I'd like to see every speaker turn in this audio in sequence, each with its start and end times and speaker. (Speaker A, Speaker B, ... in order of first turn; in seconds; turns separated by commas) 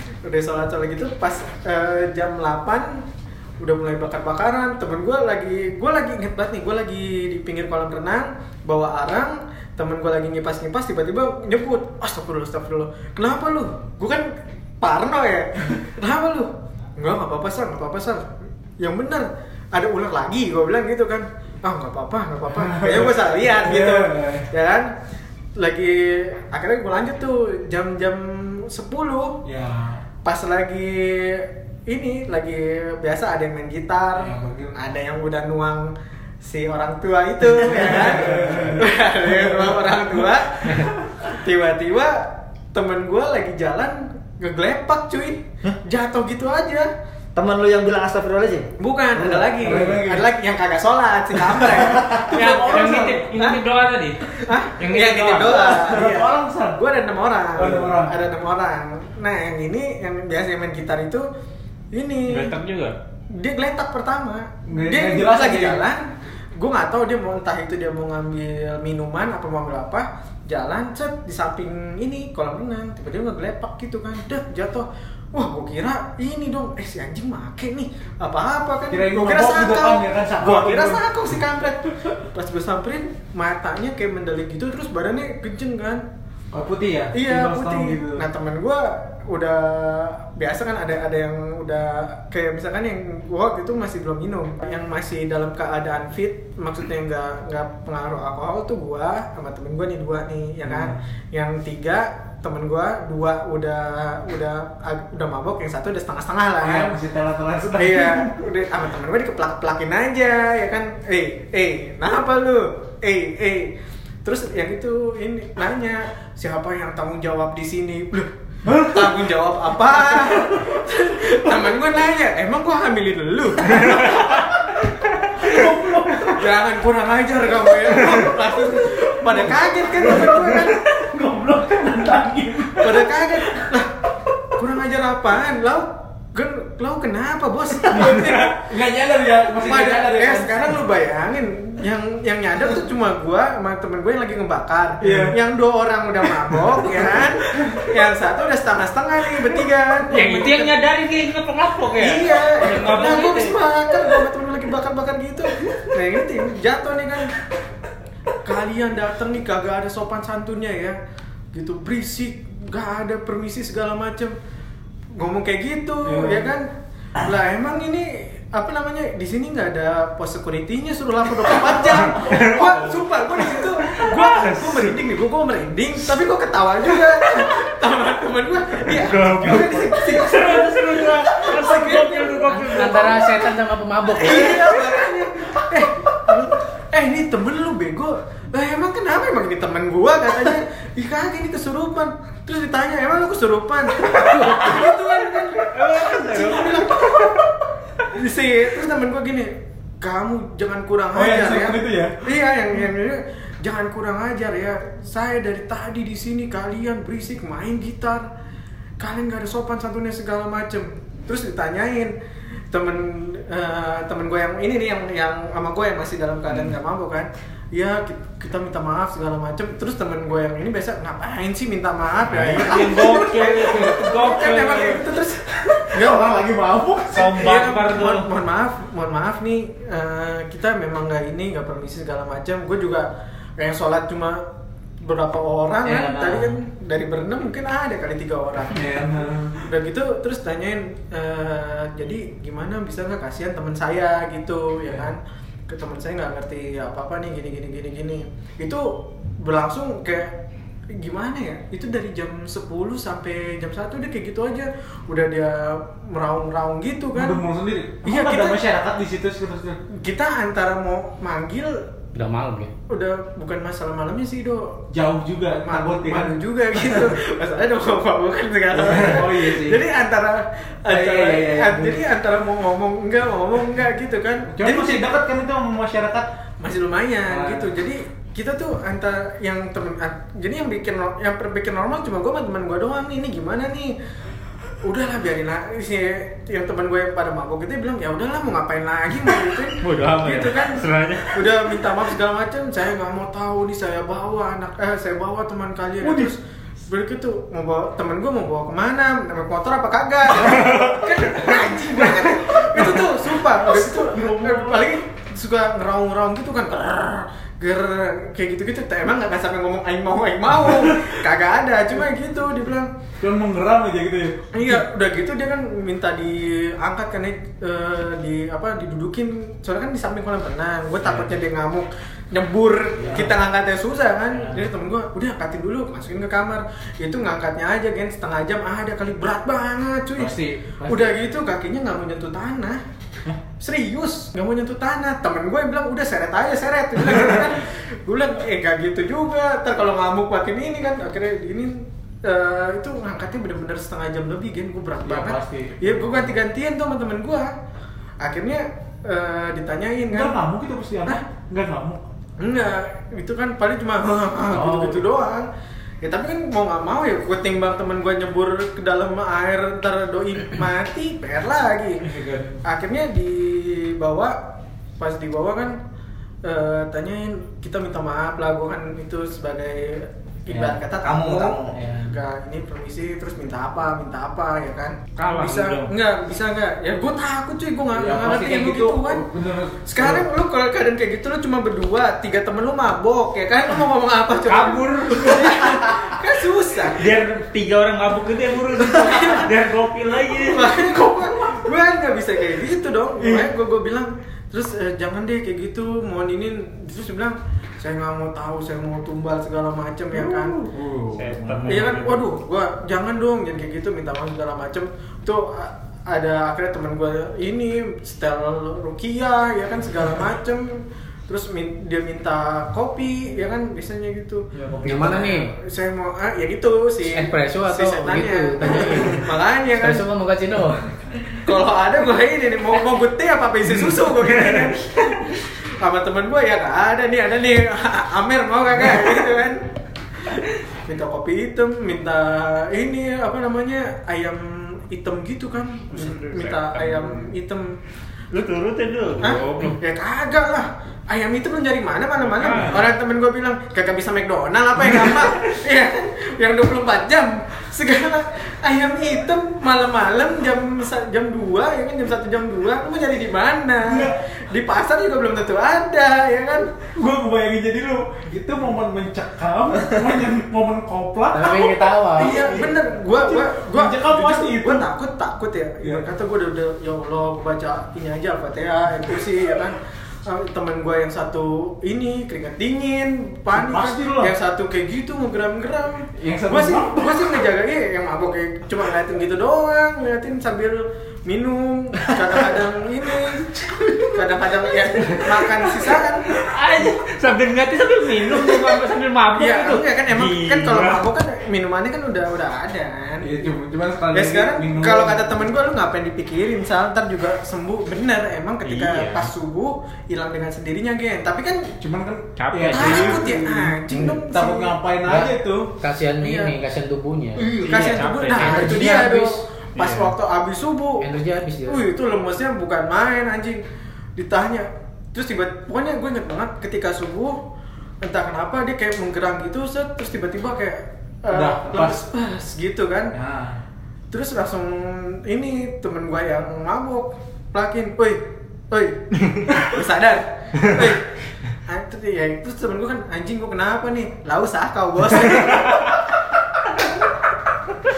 Speaker A: 0.2-3.1, Speaker A: 3.6-24.9, Speaker B: 22.6-24.5, Speaker A: 25.6-29.4, Speaker B: 29.4-30.0, Speaker A: 30.2-46.9, Speaker B: 34.2-34.8, Speaker B: 37.7-39.6, Speaker B: 40.7-41.2, Speaker C: 47.4-50.0, Speaker A: 48.8-53.6, Speaker B: 49.6-50.3, Speaker B: 51.6-53.3, Speaker D: 52.7-55.9, Speaker A: 54.4-61.3, Speaker B: 55.3-56.8, Speaker B: 57.5-58.2, Speaker A: 61.9-62.5, Speaker D: 62.3-63.0, Speaker A: 63.3-86.0, Speaker B: 64.7-65.8, Speaker B: 78.9-81.0, Speaker B: 86.5-88.3, Speaker A: 87.1-107.0, Speaker B: 100.7-101.0, Speaker B: 106.6-108.4, Speaker A: 107.8-125.5, Speaker B: 118.7-119.1, Speaker B: 120.1-120.6, Speaker B: 125.4-126.4, Speaker A: 126.2-130.9, Speaker B: 128.8-133.7, Speaker A: 132.8-133.9, Speaker A: 134.6-138.6, Speaker B: 137.8-140.8, Speaker A: 139.4-150.8, Speaker B: 145.0-145.4, Speaker B: 146.4-146.7, Speaker B: 147.6-147.8, Speaker D: 150.1-154.1, Speaker A: 152.0-157.4, Speaker A: 158.4-161.0, Speaker A: 161.5-164.4, Speaker A: 165.2-183.2, Speaker B: 166.1-166.5, Speaker D: 172.1-173.0, Speaker D: 173.6-174.9, Speaker D: 178.9-183.3, Speaker E: 182.5-184.7, Speaker A: 184.1-197.4, Speaker B: 194.0-194.8, Speaker B: 195.7-197.4, Speaker D: 196.0-196.4, Speaker A: 198.1-208.3, Speaker B: 201.1-202.3, Speaker A: 209.0-212.1, Speaker A: 212.7-226.1, Speaker D: 222.3-225.1, Speaker B: 222.4-223.7, Speaker B: 225.6-227.4, Speaker D: 227.1-228.3, Speaker A: 227.3-234.5, Speaker A: 235.0-250.3, Speaker E: 235.8-236.6, Speaker B: 238.7-239.7, Speaker A: 250.9-257.4, Speaker B: 257.1-259.8, Speaker A: 258.0-258.6, Speaker A: 259.9-261.8, Speaker E: 262.1-262.7, Speaker A: 262.9-264.8, Speaker B: 264.9-267.1, Speaker A: 265.5-275.0, Speaker B: 268.7-269.8, Speaker B: 270.9-272.1, Speaker B: 274.5-276.3, Speaker A: 276.6-284.0, Speaker B: 277.3-277.7, Speaker A: 284.8-312.9, Speaker D: 289.7-291.6, Speaker B: 296.0-296.3, Speaker B: 302.1-304.9, Speaker B: 310.7-311.2, Speaker B: 313.2-314.8, Speaker A: 314.5-332.8, Speaker B: 321.0-321.3, Speaker B: 323.0-323.3, Speaker B: 330.2-331.2, Speaker A: 333.6-347.5, Speaker B: 345.0-346.4, Speaker A: 348.2-350.4, Speaker B: 350.1-352.0, Speaker A: 352.4-355.5, Speaker B: 354.5-355.0, Speaker A: 356.0-362.1, Speaker B: 362.0-362.6, Speaker A: 362.6-365.8, Speaker A: 366.4-379.2, Speaker C: 371.0-371.8, Speaker B: 371.7-372.1, Speaker D: 375.2-375.9, Speaker B: 377.9-380.3, Speaker A: 379.9-387.1, Speaker D: 384.4-386.1, Speaker D: 386.9-391.0, Speaker A: 388.8-389.5, Speaker A: 390.4-400.6, Speaker B: 393.2-393.5, Speaker B: 400.1-401.9, Speaker D: 401.1-402.2, Speaker A: 401.6-420.1, Speaker B: 414.5-415.2, Speaker E: 414.8-415.5, Speaker E: 417.1-421.0, Speaker A: 421.4-429.7, Speaker A: 430.3-437.8, Speaker D: 435.9-437.3, Speaker D: 438.3-439.8, Speaker A: 439.2-456.7, Speaker D: 442.4-442.9, Speaker B: 453.8-454.2, Speaker B: 456.9-464.9, Speaker E: 461.3-462.7, Speaker A: 462.2-486.3, Speaker B: 473.5-474.3, Speaker B: 476.2-477.2, Speaker C: 483.8-484.1, Speaker D: 485.0-491.1, Speaker A: 489.3-493.5, Speaker B: 493.2-495.5, Speaker A: 494.1-501.7, Speaker D: 498.6-499.3, Speaker B: 501.8-505.7, Speaker D: 502.4-503.3, Speaker A: 502.7-504.8, Speaker E: 505.1-507.5, Speaker A: 506.2-506.6, Speaker A: 507.5-511.1, Speaker B: 507.7-508.1, Speaker D: 507.7-508.8, Speaker E: 508.4-509.4, Speaker D: 509.8-510.1, Speaker E: 511.0-511.9, Speaker A: 511.7-513.6, Speaker A: 514.2-517.4, Speaker A: 518.0-523.1, Speaker B: 521.3-522.0, Speaker B: 523.1-523.6, Speaker A: 524.1-536.0